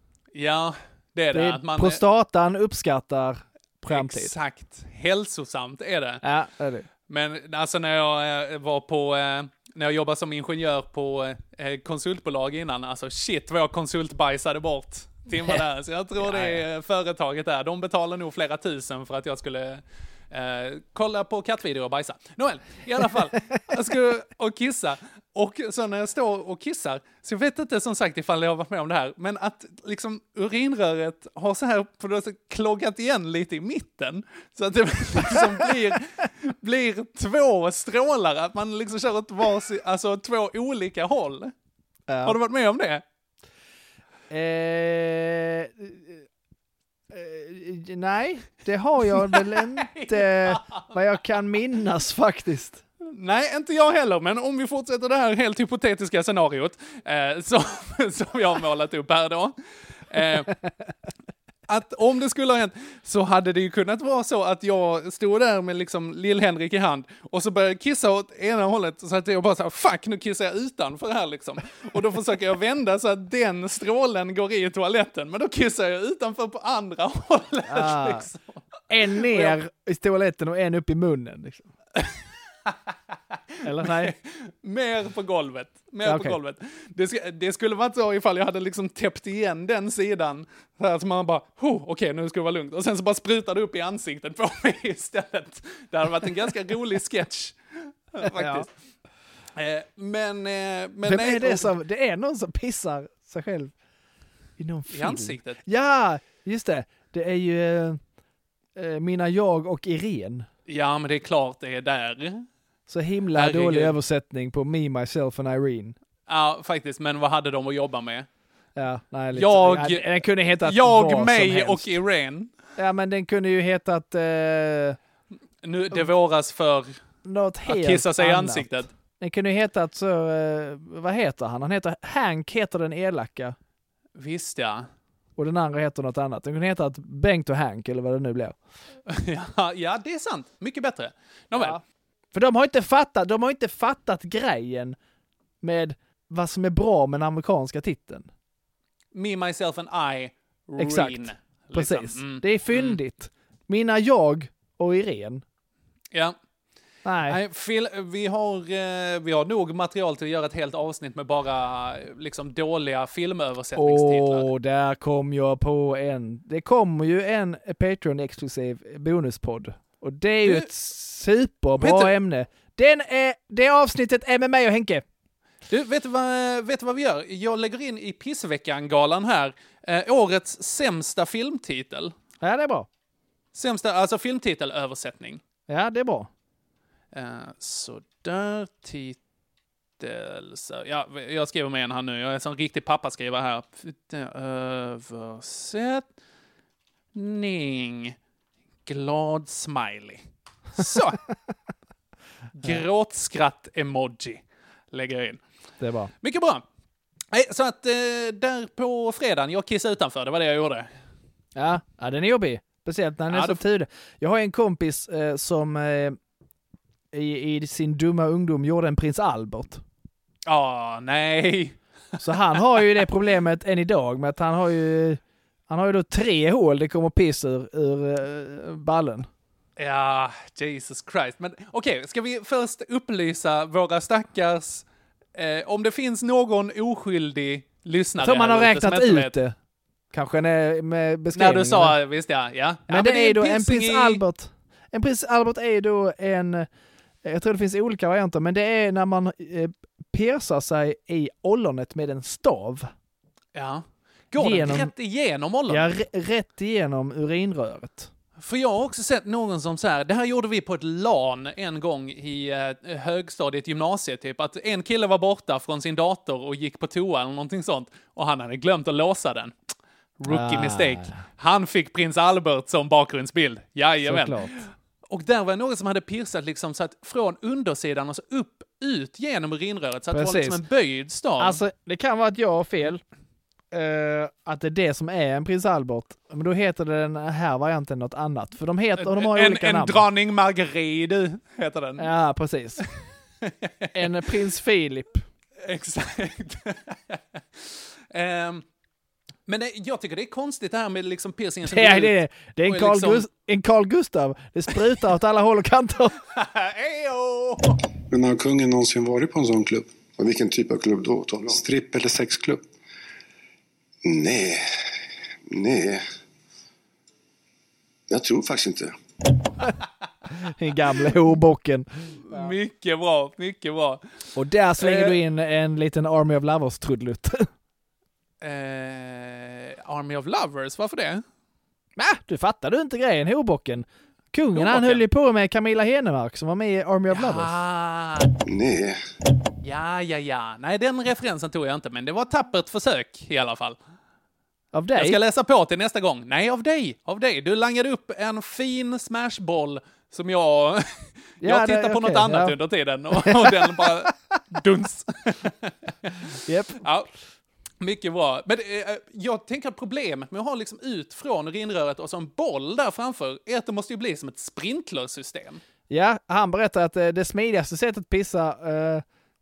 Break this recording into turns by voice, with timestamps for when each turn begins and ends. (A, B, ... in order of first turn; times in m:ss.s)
0:00.3-0:02.0 A
0:01.3-0:04.3 B
0:03.9-0:06.2 A
0:06.2-0:06.9 B
0:07.1-0:41.5 A
0:16.2-0:16.6 B
0:42.1-0:42.4 B
0:42.2-0:43.0 A
0:44.3-0:46.2 B
0:47.1-0:52.8 B
0:49.1-0:51.0 A
0:53.0-1:00.5 A
1:01.7-1:19.5 A
1:17.7-1:18.2 B
1:18.9-1:21.7 B
1:22.0-1:22.7 A
1:23.6-1:24.1 B
1:23.8-1:38.7 A
1:26.0-1:26.4 B
1:38.3-1:38.6 B
1:39.6-1:41.8 A
1:41.0-1:43.7 B
1:44.6-1:48.0 B
1:44.9-1:45.6 A
1:48.7-1:50.5 B
1:50.7-1:52.5 A
1:52.9-1:56.0 B
1:53.3-1:54.0 A
1:56.3-1:58.3 A
1:58.8-2:01.9 B
1:59.3-2:02.5 A
2:02.8-2:05.0 B
2:05.6-2:07.0 A
2:07.2-2:13.6 B
2:07.7-2:08.9 A
2:14.2-2:14.9 A
2:15.4-2:18.6 B
2:19.1-2:21.8 A
2:21.6-2:21.8 B
2:22.3-2:25.0 B
2:25.6-2:28.3 B
2:29.1-2:33.0 A
2:30.8-2:35.4 B
2:37.0-2:37.4 B
2:37.3-2:44.5 A
2:43.8-2:55.0 B
2:51.8-2:52.1 A
2:55.7-3:02.1 A
3:02.4-3:02.9 B
3:03.5-3:05.4 A
3:05.7-3:06.3 B
3:07.1-3:09.2 A
3:10.0-3:16.0 A
3:17.1-3:18.2 A
3:18.8-3:21.2 A
3:22.6-3:25.4 A
3:25.8-3:26.1 B
3:26.2-3:26.6 A
3:27.3-3:30.9 A
3:31.6-3:36.2 B
3:33.3-3:33.6 A
3:37.1-3:39.8 B
3:40.5-3:41.8 A
3:42.2-3:49.3 B
3:42.3-3:42.6 A
3:49.8-3:59.4 A
3:58.2-3:59.6 B
4:00.1-4:02.0 B
4:01.3-4:04.2 A
4:02.9-4:06.7 B
4:07.2-4:12.9 B
4:13.5-4:15.9 A
4:14.4-4:14.9 B
4:15.7-4:18.1 B
4:18.4-4:29.5 A
4:30.2-4:41.6 A
4:30.3-4:31.2 B
4:34.0-4:34.6 B
4:40.1-4:40.6 B
4:41.4-4:43.0 B
4:43.7-4:50.0 B
4:49.0-4:52.1 A
4:52.0-4:52.8 B
4:53.4-4:54.3 A
4:53.9-4:55.2 B
4:55.6-4:58.6 A
4:59.5-5:03.2 A
5:01.6-5:06.2 B
5:06.3-5:07.8 A
5:08.1-5:12.6 C
5:14.0-5:14.6 C
5:15.5-5:16.0 C
5:18.1-5:19.7 C
5:20.4-5:22.5 B
5:22.3-5:24.0 A
5:24.3-5:27.5 B
5:24.8-5:25.2 A
5:28.4-5:31.2 A
5:32.0-5:37.5 B
5:34.5-5:35.0 A
5:37.1-5:38.3 A
5:38.4-5:39.0 C
5:39.6-5:43.8 A
5:44.7-5:45.2 B
5:45.0-5:56.2 A
5:51.4-5:52.5 B
5:53.1-5:54.1 B
5:56.4-5:56.8 B
5:56.8-5:57.1 A
5:57.8-6:05.6 A
6:05.9-6:09.0 B